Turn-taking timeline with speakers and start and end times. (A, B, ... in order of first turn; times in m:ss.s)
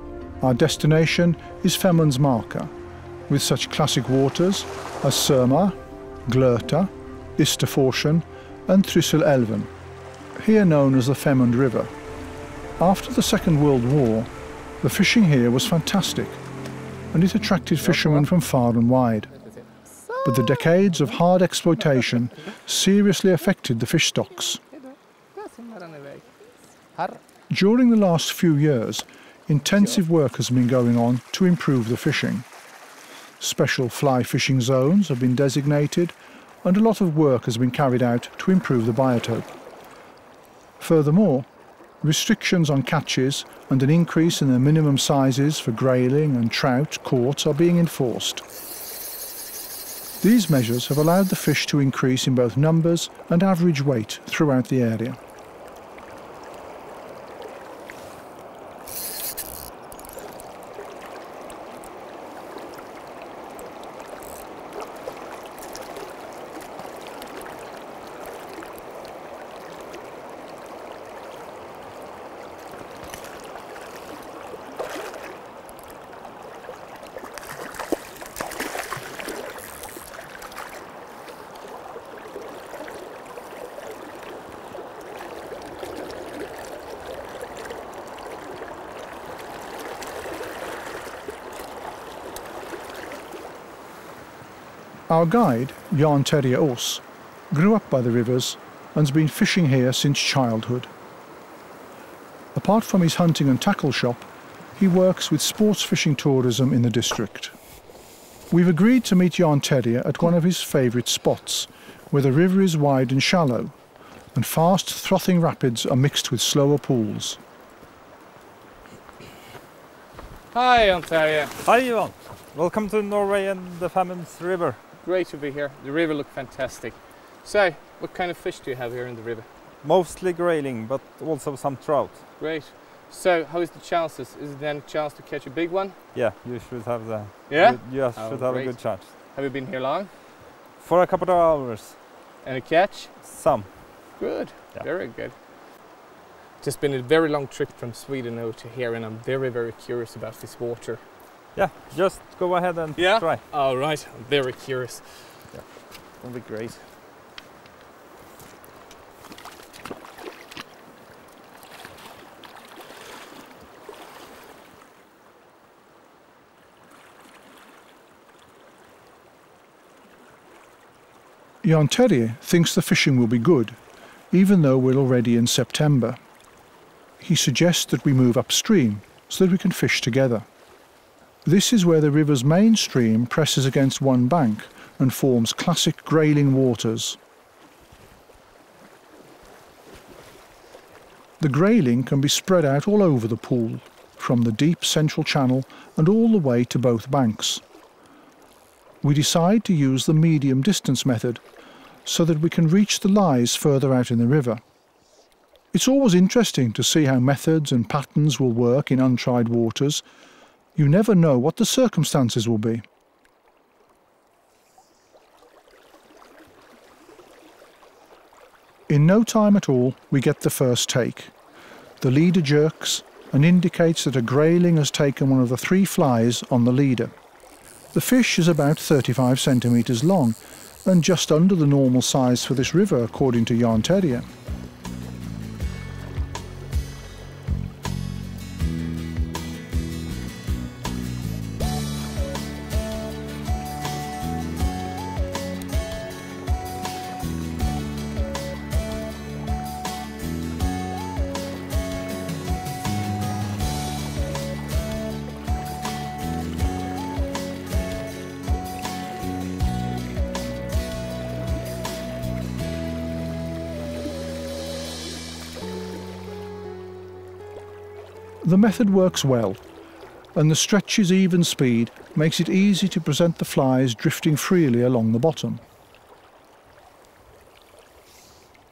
0:00.4-0:02.7 A
0:03.3-0:05.8 A
0:06.3-0:09.7 A
0:10.4-0:11.9 A
0:12.8-0:14.3 A
0:14.8-0:16.4 A
0:17.1-0:19.3 A
0:18.0-0:18.2 B
0:20.0-0:20.8 B
0:20.2-0:24.6 A
0:24.7-0:26.3 B
0:26.9-0:27.2 B
0:27.5-0:32.5 A
0:33.4-0:39.5 A
0:40.8-0:41.5 A
0:42.0-0:48.4 A
0:50.2-0:55.2 A
1:35.1-1:40.9 A
1:42.6-1:47.6 A
1:48.5-1:53.8 A
1:54.3-1:57.4 A
2:00.5-2:01.6 B
2:01.6-2:04.8 C
2:05.0-2:09.5 B
2:09.8-2:12.3 C
2:12.4-2:16.0 B
2:16.1-2:19.1 C
2:17.5-2:20.1 B
2:20.8-2:22.0 C
2:22.4-2:23.4 B
2:23.2-2:23.7 C
2:24.2-2:25.4 B
2:26.6-2:31.0 B
2:31.6-2:33.4 C
2:33.0-2:36.9 B
2:51.6-2:53.8 A
2:54.3-2:56.2 A
2:57.2-3:00.5 A
3:01.4-3:07.2 A
3:11.4-3:17.6 A
3:19.0-3:21.4 A
3:22.1-3:24.6 A
3:25.7-3:30.0 A
3:30.8-3:32.8 A
3:38.9-3:41.3 A
3:42.0-3:47.1 A
3:47.9-3:54.3 A
4:28.4-4:29.6 A
4:30.4-4:35.6 A